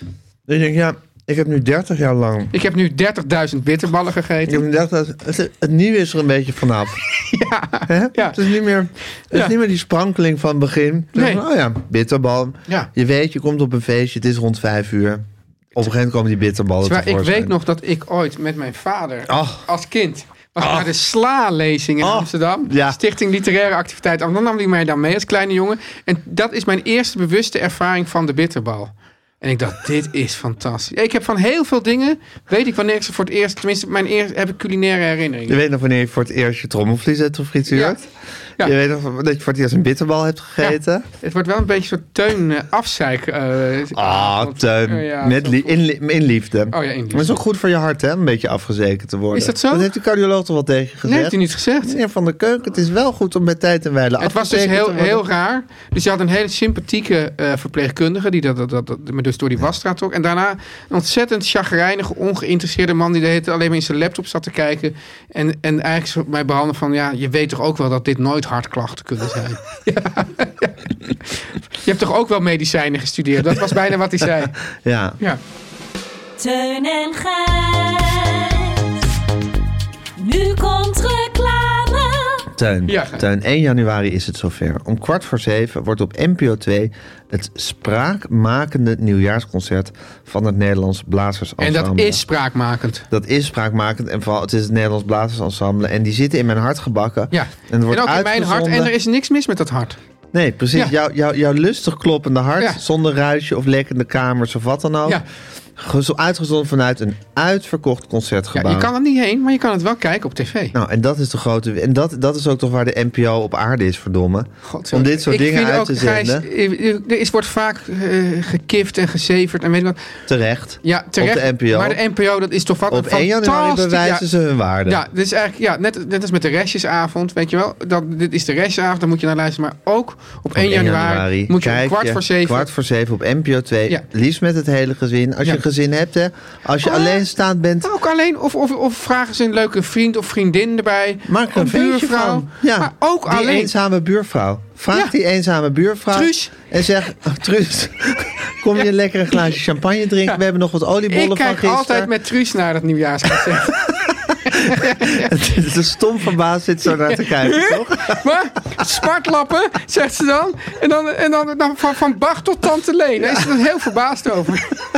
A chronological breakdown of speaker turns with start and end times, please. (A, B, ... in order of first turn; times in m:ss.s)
0:00.4-0:02.5 A
0:02.5-0:04.6 B
0:04.5-0:07.1 A
0:07.3-0:08.4 B
0:07.9-0:17.5 A
0:09.3-0:09.5 B
0:11.1-0:11.4 B
0:16.8-0:35.6 B
0:19.3-0:19.6 A
0:20.6-0:20.9 A
0:22.0-0:23.0 A
0:35.5-0:38.0 A
0:37.7-0:38.0 B
0:38.6-0:41.0 A
0:40.6-0:45.7 B
0:43.9-0:55.2 A
0:46.7-0:47.4 B
0:49.3-0:49.9 B
0:51.0-0:52.0 B
0:54.2-1:14.6 B
1:14.7-1:15.2 A
1:16.4-1:19.0 C
1:20.2-1:22.4 C
1:22.5-1:32.2 A
1:22.9-1:23.2 B
1:31.6-1:33.0 B
1:33.1-1:38.9 A
1:37.3-1:40.0 B
1:40.3-1:45.2 A
1:45.8-1:48.9 A
1:48.5-1:50.7 B
1:50.7-1:56.4 A
1:54.6-2:00.0 B
2:00.3-2:02.0 A
2:00.8-2:04.2 B
2:02.9-2:05.0 A
2:04.8-2:12.7 B
2:10.6-2:17.9 A
2:16.8-2:17.2 B
2:17.8-2:23.7 B
2:21.2-2:32.1 A
2:26.1-2:26.5 B
2:31.1-2:35.4 B
2:33.4-2:38.2 A
2:37.0-2:44.8 B
2:43.2-2:43.5 A